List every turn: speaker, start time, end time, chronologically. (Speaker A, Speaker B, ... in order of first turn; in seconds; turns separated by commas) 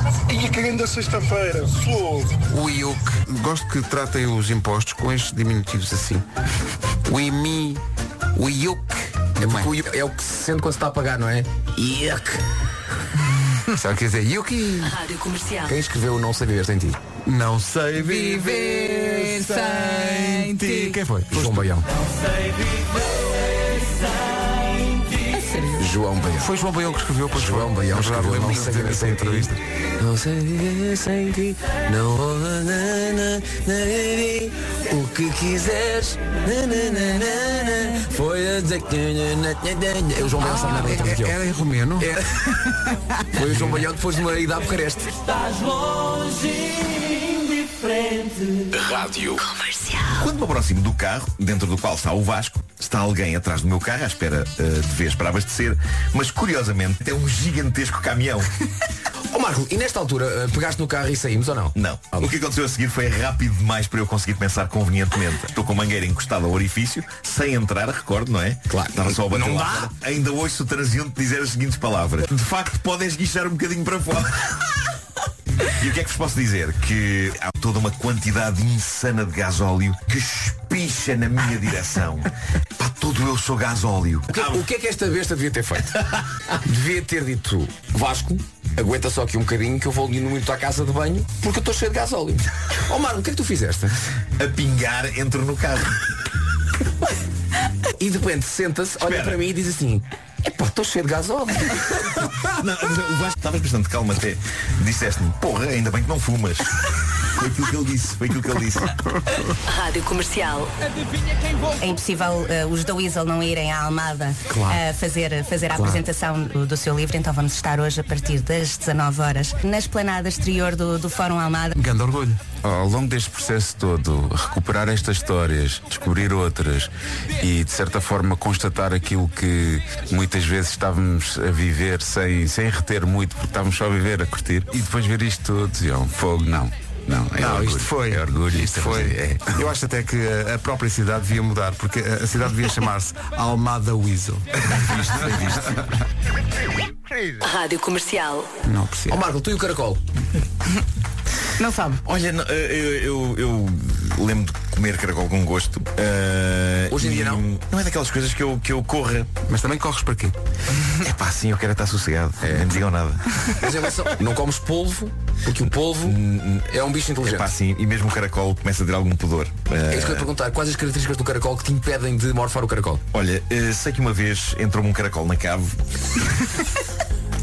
Speaker A: 0.3-2.3, Speaker B: 2.5-6.2, Speaker B: 7.1-7.8, Speaker B: 8.3-9.8, Speaker C: 9.4-12.4, Speaker B: 13.8-15.0, Speaker D: 14.8-15.7, Speaker C: 15.7-17.0, Speaker B: 17.3-21.8, Speaker E: 17.9-21.0, Speaker C: 21.1-21.9, Speaker B: 25.3-25.7, Speaker C: 25.7-26.5, Speaker B: 26.4-29.6, Speaker C: 27.3-41.4, Speaker E: 40.4-41.1, Speaker B: 40.7-42.1, Speaker C: 42.0-42.4, Speaker C: 43.3-46.9, Speaker D: 48.9-50.2, Speaker F: 50.2-58.5, Speaker C: 59.3-62.3, Speaker F: 61.8-74.8, Speaker C: 68.7-69.9, Speaker F: 75.7-84.7, Speaker C: 84.3-85.9, Speaker F: 86.1-86.4, Speaker C: 86.6-94.0, Speaker F: 94.4-96.1, Speaker C: 97.9-102.3, Speaker F: 99.0-99.4, Speaker F: 102.3-109.0, Speaker D: 109.7-110.7, Speaker G: 111.8-121.7, Speaker C: 114.5-114.8, Speaker B: 121.8-122.4, Speaker H: 122.6-139.7, Speaker B: 137.4-145.8, Speaker F: 144.7-145.8, Speaker D: 147.4-148.5, Speaker B: 148.7-149.2, Speaker C: 149.1-150.0, Speaker E: 151.6-152.0, Speaker F: 152.0-159.3, Speaker C: 156.9-157.4, Speaker B: 159.5-160.3, Speaker F: 160.9-163.3, Speaker C: 163.6-167.5, Speaker F: 166.0-170.3, Speaker C: 169.9-173.0, Speaker F: 173.1-176.3